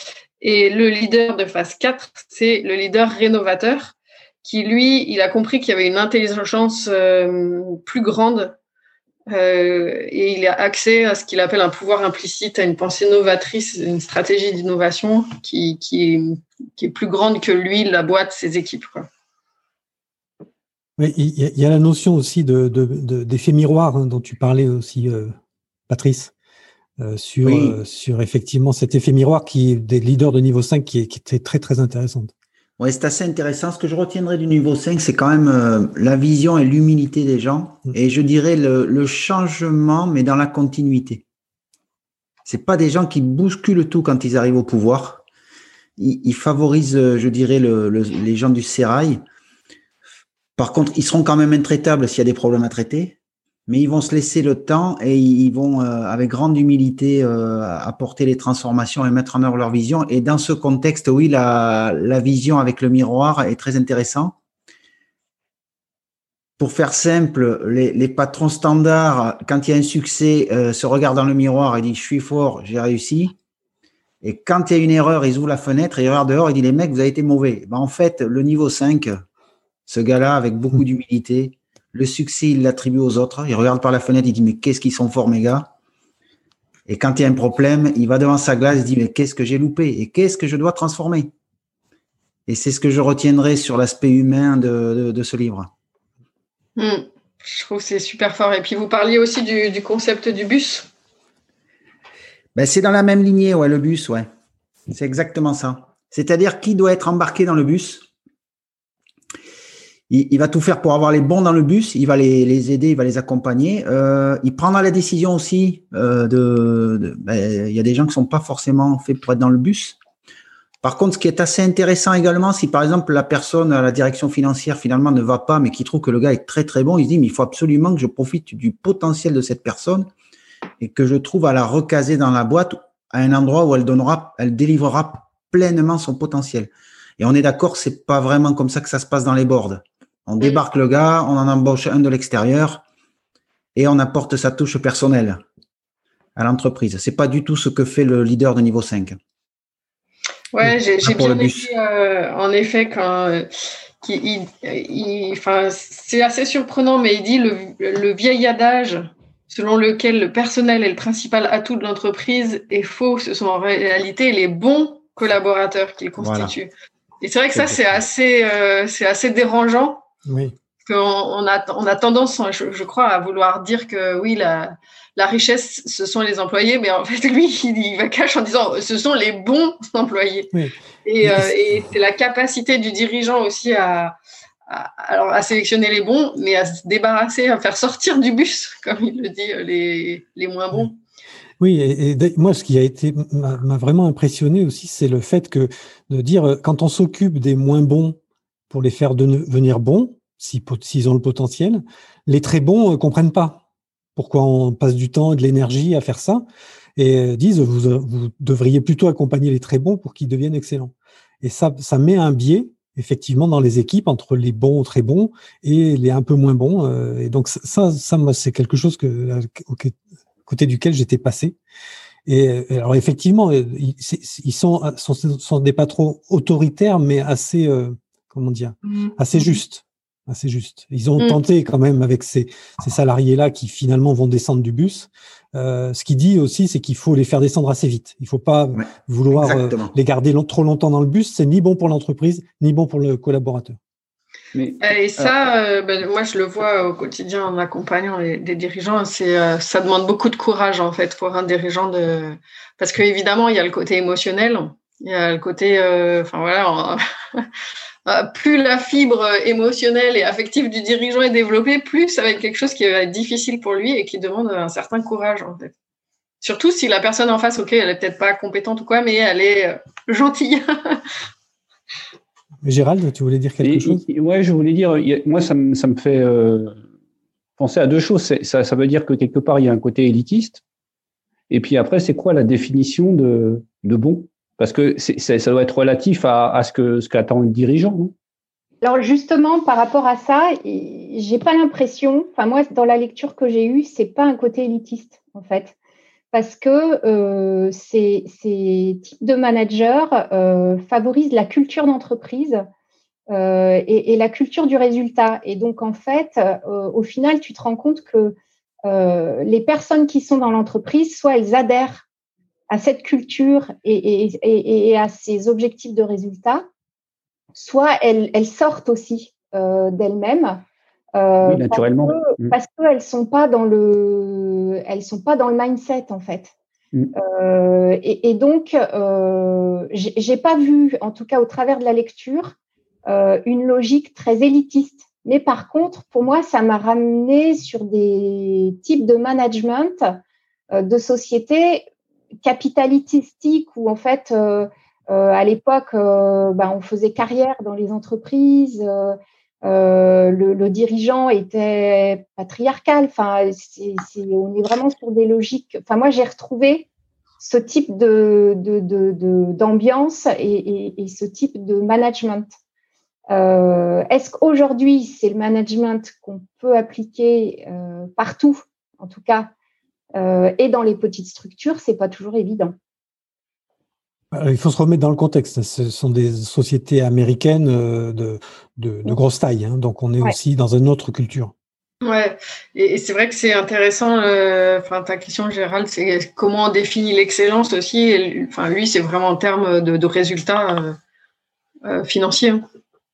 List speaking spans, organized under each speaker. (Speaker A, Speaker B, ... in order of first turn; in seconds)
Speaker A: 0.4-8.5, 9.3-19.1, 96.8-100.9, 150.5-153.5, 154.0-170.1, 170.8-180.5, 181.0-184.2, 184.7-190.9, 244.8-257.5, 258.1-265.7, 266.4-271.0, 382.0-391.0, 391.8-392.6
Speaker B: 21.0-25.3, 25.9-26.3, 27.0-32.3, 170.2-170.5, 180.5-181.5, 191.6-198.2, 198.7-203.6, 204.2-206.4, 206.9-219.9, 220.4-221.6, 222.2-243.8, 272.6-274.0, 374.3-381.5
Speaker C: 27.4-27.8, 32.8-41.2, 42.4-45.2, 46.0-49.2, 50.5-53.1, 53.7-64.3, 66.6-73.3, 74.2-79.2, 79.9-85.7, 86.9-91.3, 92.5-95.7, 102.5-104.3, 104.9-108.0, 110.1-120.0, 120.8-130.1, 130.8-142.8, 143.8-145.4, 146.3-149.2, 151.0-151.7, 166.2-166.5, 167.5-167.8, 238.8-239.9
Speaker D: 244.5-245.3, 273.6-276.7, 277.6-280.6, 281.5-288.1, 321.4-322.5
Speaker E: 288.8-295.7, 296.3-302.6, 303.3-312.1, 312.7-316.6, 317.5-320.6, 321.1-326.5, 327.1-332.5, 333.1-340.2, 340.7-341.9, 342.4-356.9, 357.4-362.5, 363.3-369.5, 370.1-372.8